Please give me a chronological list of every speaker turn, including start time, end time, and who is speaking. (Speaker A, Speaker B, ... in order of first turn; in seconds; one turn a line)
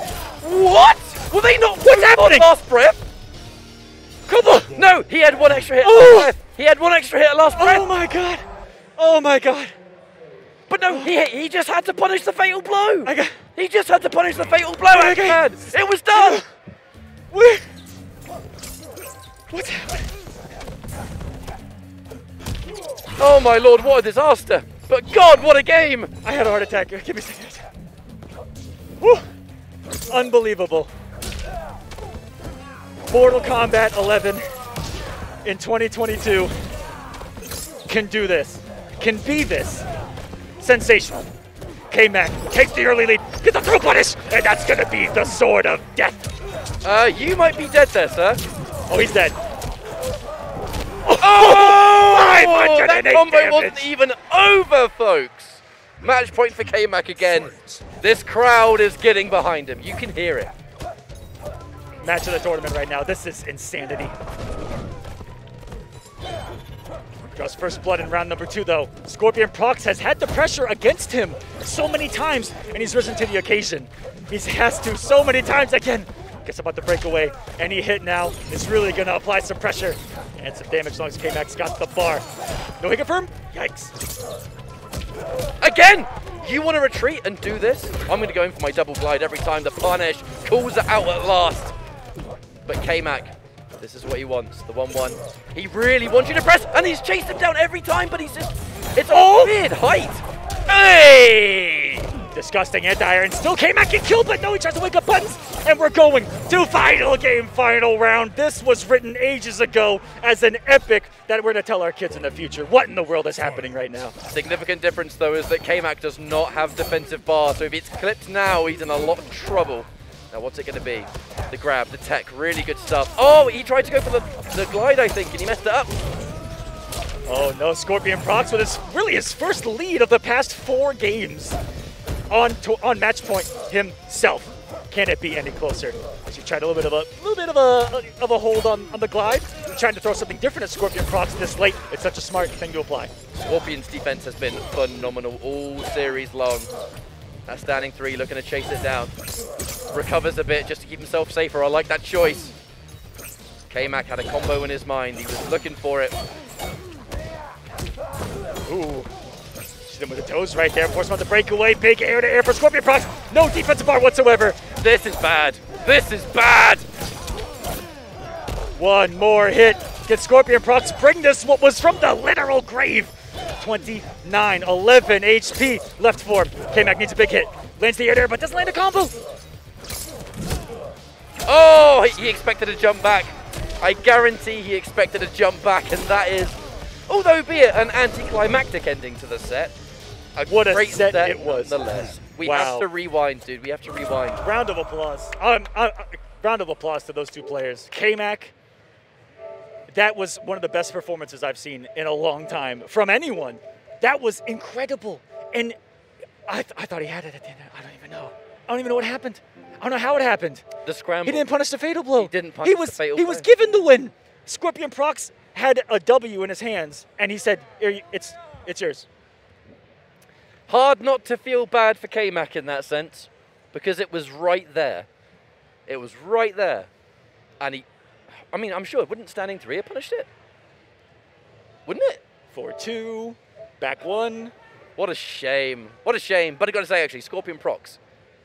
Speaker A: 0.4-3.0
Speaker B: 1.8-2.5
Speaker B: 4.3-4.8
Speaker A: 4.7-7.9
Speaker B: 5.8-6.3
Speaker B: 7.5-8.4
Speaker B: 9.0-9.7
Speaker A: 10.7-16.4
Speaker B: 13.0-13.4
Speaker B: 14.9-15.6
Speaker B: 16.1-16.5
Speaker B: 17.3-17.7
Speaker B: 19.5-20.1
Speaker A: 23.2-26.1
Speaker B: 26.2-27.7
Speaker B: 29.0-29.3
Speaker B: 30.1-30.9
Speaker B: 33.1-34.5
Speaker B: 35.4-36.5
Speaker B: 37.9-39.9
Speaker B: 40.6-41.3
Speaker B: 41.9-46.3
Speaker A: 46.8-48.4
Speaker B: 48.9-49.4
Speaker B: 51.0-53.9
Speaker A: 51.2-60.5
Speaker B: 62.0-64.1
Speaker B: 67.3-82.2
Speaker B: 82.8-83.9
Speaker A: 85.6-91.7
Speaker A: 92.7-102.1
Speaker B: 99.1-99.5
Speaker B: 102.3-114.1
Speaker A: 114.3-125.9
Speaker B: 127.3-131.6
Speaker B: 132.3-143.1
Speaker A: 143.3-146.7
Speaker A: 147.4-149.1
Speaker A: 149.9-152.5
Speaker A: 153.7-156.2
Speaker B: 158.7-159.1
Speaker B: 159.8-164.6
Speaker A: 164.8-166.9
Speaker B: 168.8-179.1
Speaker A: 181.4-189.7
Speaker A: 190.3-194.4
Speaker B: 190.5-191.8
Speaker B: 192.4-192.9
Speaker B: 194.4-198.5
Speaker B: 199.9-205.8
Speaker B: 206.5-210.7
Speaker A: 210.8-211.5
Speaker B: 211.2-219.1
Speaker A: 212.2-213.5
Speaker A: 220.7-225.1
Speaker A: 225.9-226.9
Speaker A: 227.6-227.8
Speaker A: 228.5-230.3
Speaker A: 231.8-232.2
Speaker B: 232.5-234.5
Speaker A: 234.9-238.0